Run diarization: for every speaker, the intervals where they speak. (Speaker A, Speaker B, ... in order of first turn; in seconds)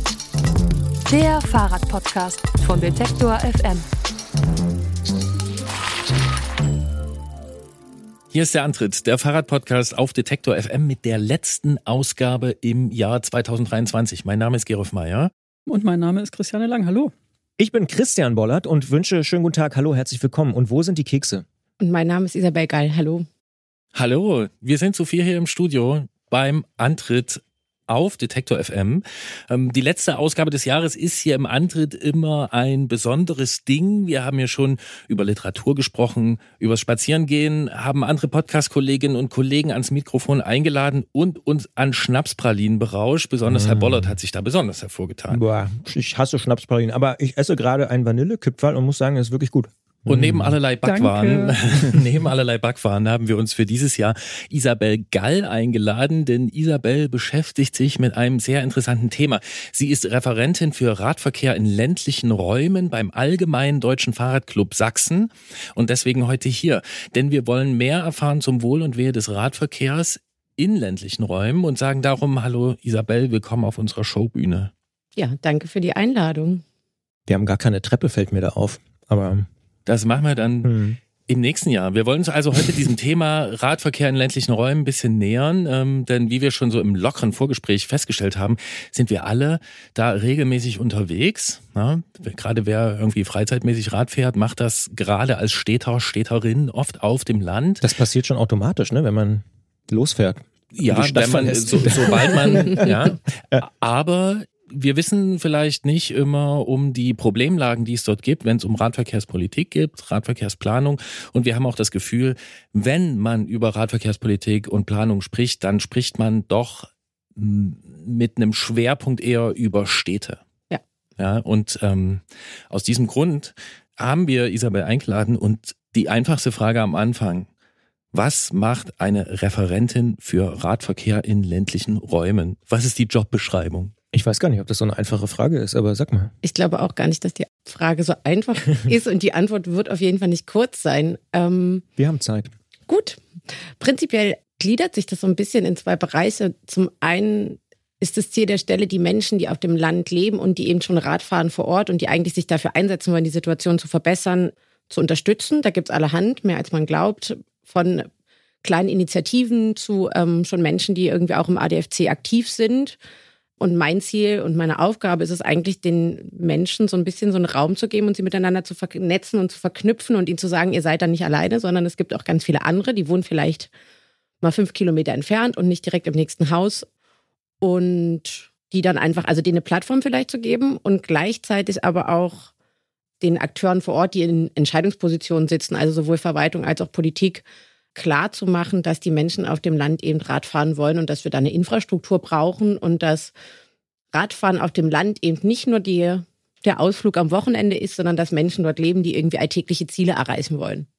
Speaker A: 1.1-3.8
Speaker B: 8.3-15.3, 23.9-45.4, 50.1-74.7, 79.9-97.8, 100.7-120.4, 121.2-127.5, 128.1-133.9
Speaker C: 15.7-17.1, 50.8-51.6
Speaker D: 17.6-21.4, 43.5-44.1, 45.3-50.6, 77.3-79.5, 80.6-81.0, 97.8-103.6, 134.1-136.3, 142.0-142.5
Speaker E: 21.8-23.2, 75.2-76.6, 136.4-141.8, 142.9-143.2, 143.8-158.1, 158.6-163.0, 163.6-173.7, 174.4-176.8, 177.6-182.5, 183.2-187.4, 187.9-193.3, 194.1-200.9